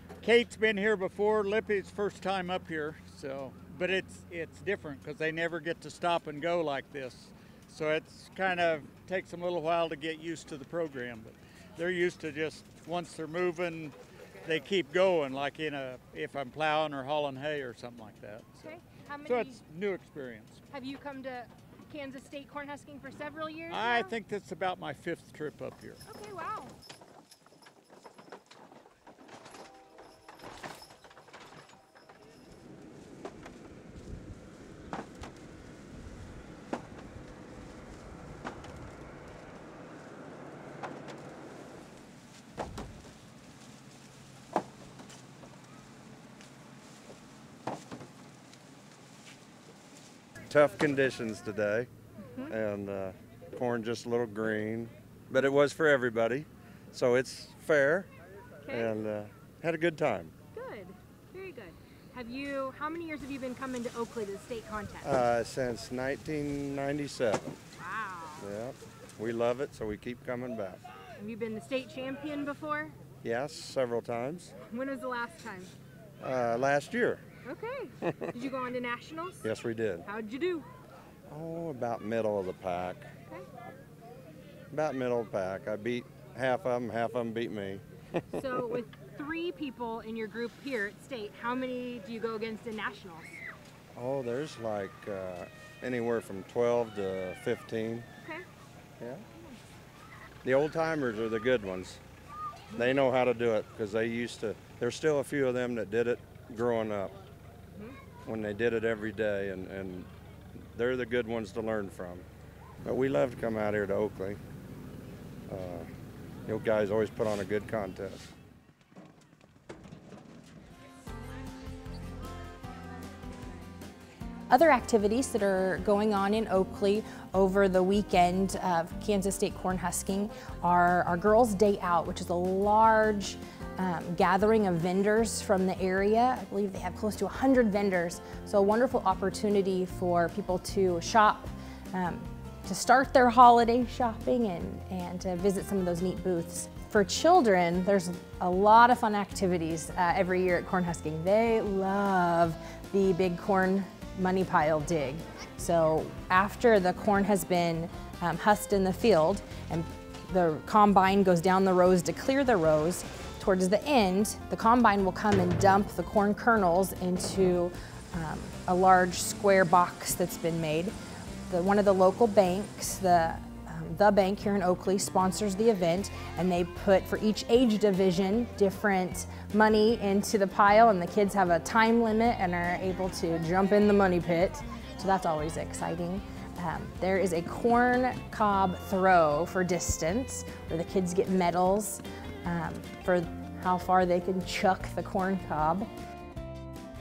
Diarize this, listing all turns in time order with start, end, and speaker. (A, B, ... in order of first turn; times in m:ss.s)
0:00.2-0:18.7 A
0:18.6-0:19.6 B
0:19.2-0:20.6 A
0:20.7-0:24.2 B
0:23.7-0:26.0 A
0:26.0-0:26.7 B
0:50.5-0:51.9 C
0:52.5-0:58.1 C
0:58.6-0:59.0 B
0:58.7-1:00.3 C
1:00.5-1:05.2 B
1:05.0-1:07.6 C
1:07.8-1:08.5 B
1:08.4-1:10.8 C
1:11.2-1:13.0 B
1:13.2-1:14.5 C
1:14.7-1:15.7 B
1:16.2-1:17.2 C
1:17.4-1:19.5 B
1:19.4-1:20.0 C
1:20.0-1:20.7 B
1:21.3-1:23.1 C
1:24.7-1:27.8 C
1:28.3-1:33.4 B
1:33.9-1:38.1 C
1:38.2-1:38.4 B
1:40.4-1:42.0 C
1:42.8-1:47.1 C
1:48.2-1:50.1 C
1:50.7-1:52.2 C
1:52.8-1:54.4 C
1:55.5-1:55.9 C
1:56.5-1:58.2 C
2:04.5-2:50.9 D
2:51.5-3:15.9 D